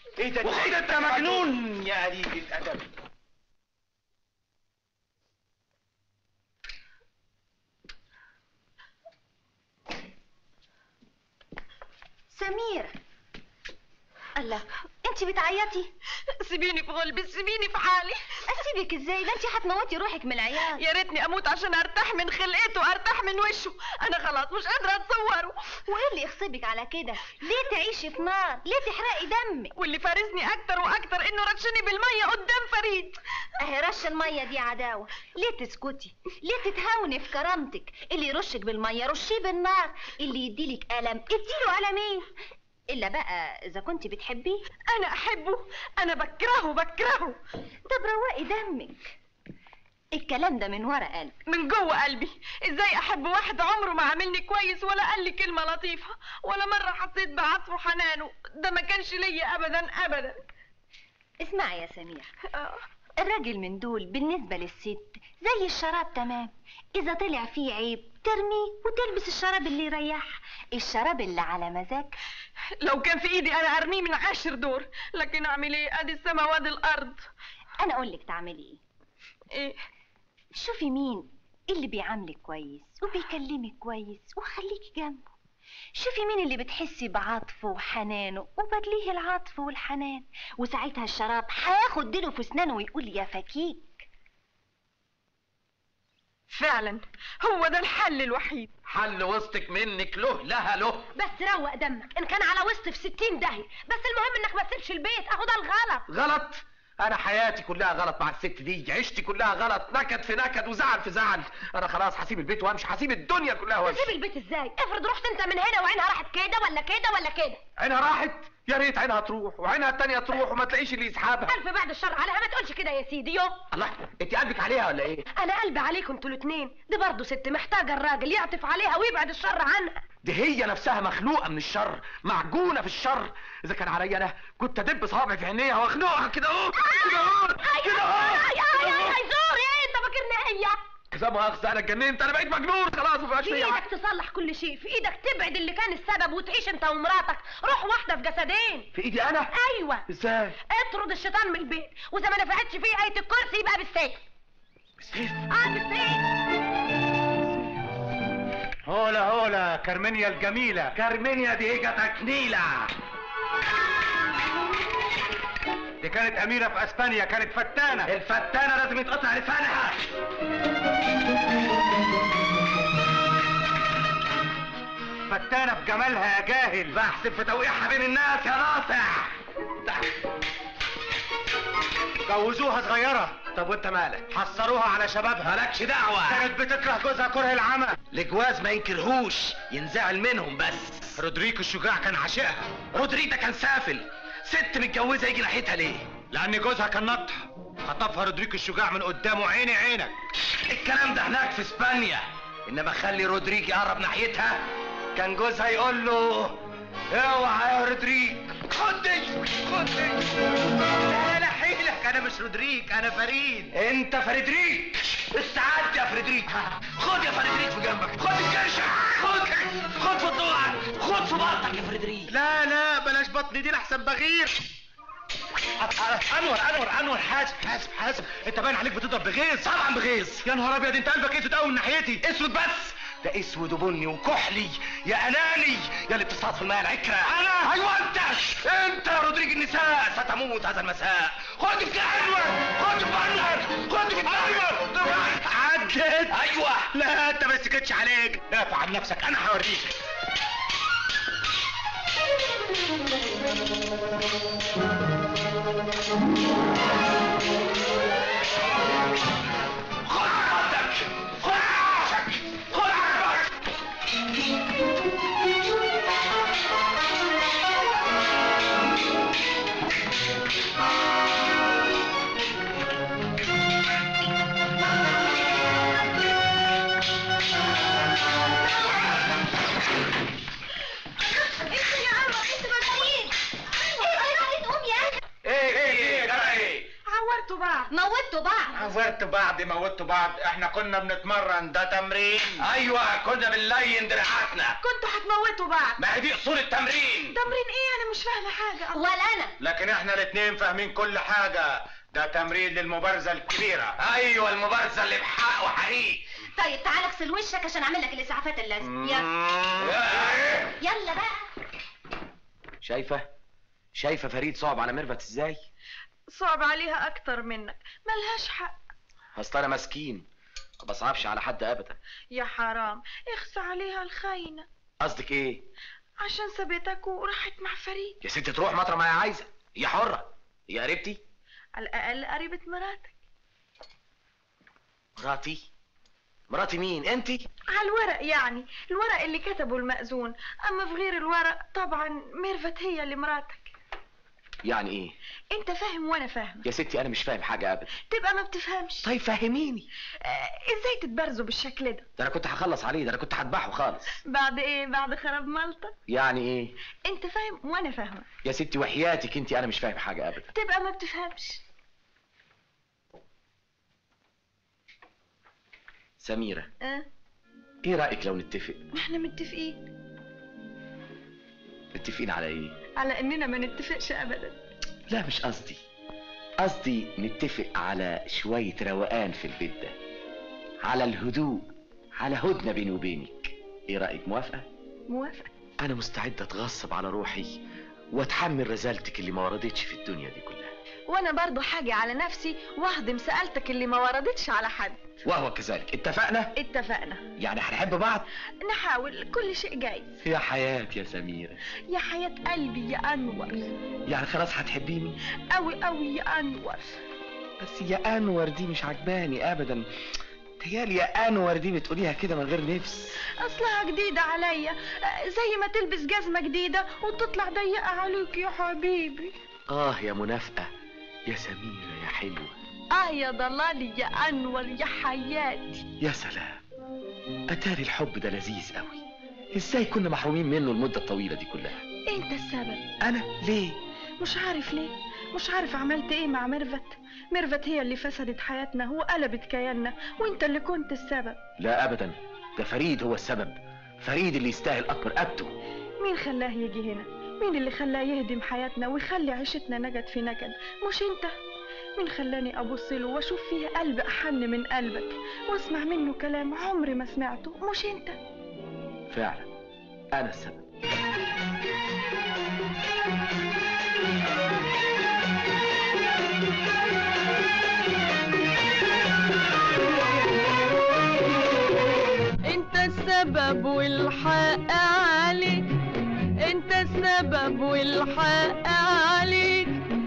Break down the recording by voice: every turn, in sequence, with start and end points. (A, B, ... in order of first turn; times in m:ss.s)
0:00.2-0:02.9 A
0:00.4-0:01.5 B
0:12.3-0:12.9 C
0:14.4-0:15.9 C
0:16.4-0:18.4 D
0:18.4-0:20.8 C
0:20.8-0:25.7 D
0:25.8-0:29.7 C
0:29.8-0:33.2 D
0:33.6-0:42.3 C
0:42.9-0:44.6 C
0:44.9-0:47.4 D
0:47.9-0:49.1 C
0:50.1-0:51.4 C
0:51.5-1:00.4 D
1:01.4-1:02.3 C
1:02.5-1:02.8 D
1:03.2-1:12.2 C
1:12.8-1:17.2 D
1:17.8-1:18.8 C
1:20.5-1:25.3 C
1:25.9-1:34.0 C
1:36.5-1:38.7 D
1:38.8-1:41.1 B
1:41.2-1:46.0 E
1:46.1-1:54.1 B
1:53.8-1:57.6 E
1:57.8-2:01.6 B
2:01.4-2:03.6 E
2:03.7-2:05.2 B
2:05.3-2:10.0 E
2:10.2-2:19.0 B
2:17.6-2:20.8 E
2:21.1-2:23.8 B
2:23.4-2:28.9 E
2:28.9-2:29.5 B
2:29.5-2:30.0 E
2:30.1-2:30.6 B
2:30.7-2:34.2 E
2:35.0-2:35.5 B
2:35.5-2:36.2 E
2:38.9-2:40.9 A
2:40.9-2:42.9 B
2:46.0-2:48.1 A
2:48.0-2:50.1 B
2:55.3-2:57.0 A
2:56.9-3:00.1 B
3:02.3-3:03.5 A
3:03.5-3:04.3 B
3:04.3-3:05.6 A
3:05.4-3:06.5 B
3:06.2-3:08.0 A
3:08.1-3:11.2 B
3:11.2-3:12.8 A
3:12.9-3:16.1 B
3:16.3-3:20.1 A
3:20.6-3:24.6 B
3:25.1-3:26.5 A
3:27.1-3:29.9 B
3:31.0-3:33.7 A
3:33.7-3:42.3 B
3:42.3-3:44.6 A
3:45.8-3:49.8 A
3:49.6-3:50.4 B
3:50.4-3:52.2 A
3:52.2-4:05.4 B
3:57.2-3:57.9 A
4:04.0-4:06.3 A
4:06.3-4:06.9 B
4:06.9-4:09.9 A
4:20.0-4:23.6 B
4:41.6-4:43.3 C
4:41.7-4:42.2 D
4:43.8-4:44.2 D
4:43.9-4:45.2 C
4:45.4-4:46.9 B
4:45.7-4:46.7 A
4:47.0-4:47.9 D
4:47.9-4:48.9 C
4:48.7-4:52.6 A
4:52.6-4:54.8 B
4:54.8-4:56.0 D
4:56.0-4:57.3 B
4:57.3-4:59.1 D
4:58.9-4:59.5 C
4:59.6-5:03.9 A
5:04.0-5:06.3 B
5:06.6-5:09.2 C
5:08.8-5:10.1 A
5:09.8-5:10.8 B
5:10.8-5:11.5 C
5:12.8-5:13.3 B
5:13.9-5:15.6 B
5:16.3-5:18.7 D
5:19.3-5:20.2 B
5:20.8-5:22.0 B
5:22.3-5:24.7 D
5:25.0-5:25.6 B
5:26.2-5:28.2 D
5:28.2-5:31.2 B
5:31.8-5:33.2 D
5:35.2-5:35.6 B
5:36.5-5:37.4 B
5:37.7-5:43.7 D
5:44.6-5:45.1 B
5:45.5-5:46.6 D
5:46.6-5:47.9 B
5:48.0-5:49.1 D
5:49.0-5:49.9 B
5:50.2-5:52.0 D
5:52.2-5:54.2 B
5:54.3-5:55.9 D
5:56.1-5:56.7 B
5:57.0-5:58.3 D
5:58.4-6:00.5 B
6:00.5-6:01.6 D
6:06.2-6:06.7 B
6:07.8-6:08.8 B
6:08.9-6:09.8 D
6:11.9-6:12.7 B
6:13.0-6:14.6 D
6:15.1-6:15.8 B
6:16.6-6:19.9 B
6:20.8-6:24.6 B
6:25.1-6:25.5 D
6:25.8-6:27.5 B
6:28.1-6:30.7 B
6:31.1-6:35.0 D
6:35.2-6:36.5 B
6:36.6-6:37.2 D
6:37.4-6:38.3 B
6:38.6-6:40.2 D
6:40.2-6:41.6 B
6:41.9-6:43.6 D
6:44.1-6:45.1 B
6:45.5-6:47.0 D
6:47.6-6:49.8 B
6:50.6-6:53.2 B
6:53.4-6:59.3 D
6:59.7-7:00.7 B
7:01.3-7:02.5 B
7:02.9-7:05.9 D
7:06.0-7:06.6 B
7:07.5-7:09.0 B
7:09.5-7:11.8 B
7:12.1-7:12.8 D
7:13.0-7:13.8 B
7:14.2-7:21.4 D
7:21.6-7:25.5 B
7:26.0-7:31.3 D
7:32.0-7:38.2 D
7:39.1-7:39.5 B
7:40.1-7:40.6 B
7:52.4-7:55.6 F
7:56.4-7:59.8 F